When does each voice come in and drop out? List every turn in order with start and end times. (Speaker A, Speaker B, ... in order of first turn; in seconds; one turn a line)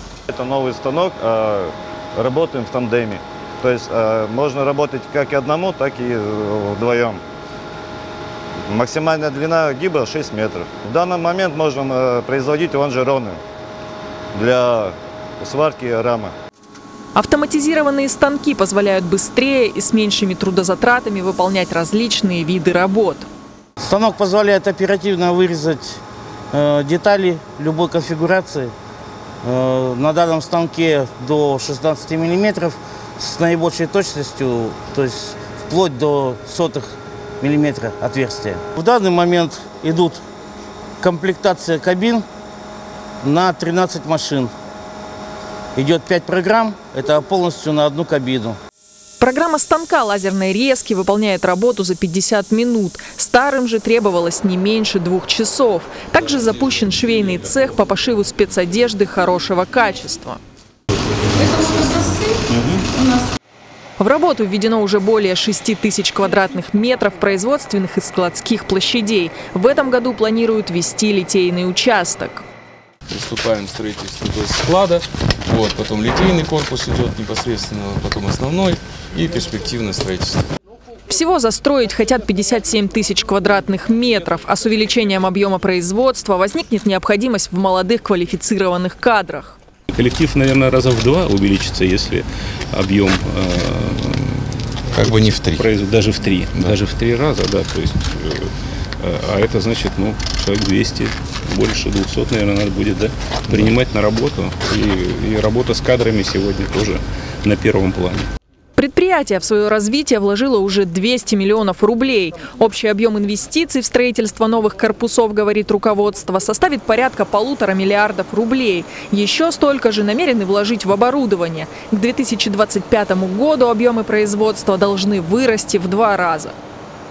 Speaker A: 0.3-7.2
Speaker A: 8.7-13.4
Speaker A: 14.3-16.3
Speaker B: 17.1-23.3
Speaker C: 23.8-26.0
Speaker C: 26.5-28.7
Speaker C: 29.4-36.9
Speaker C: 37.4-40.2
Speaker C: 41.0-42.2
Speaker C: 43.2-44.5
Speaker C: 45.8-48.6
Speaker B: 49.2-60.4
Speaker B: 64.0-72.4
Speaker D: 73.1-80.5
Speaker B: 81.1-89.6
Speaker E: 89.9-94.5
Speaker D: 94.9-95.7
Speaker E: 95.5-98.5
Speaker E: 99.0-108.3
Speaker B: 108.8-126.5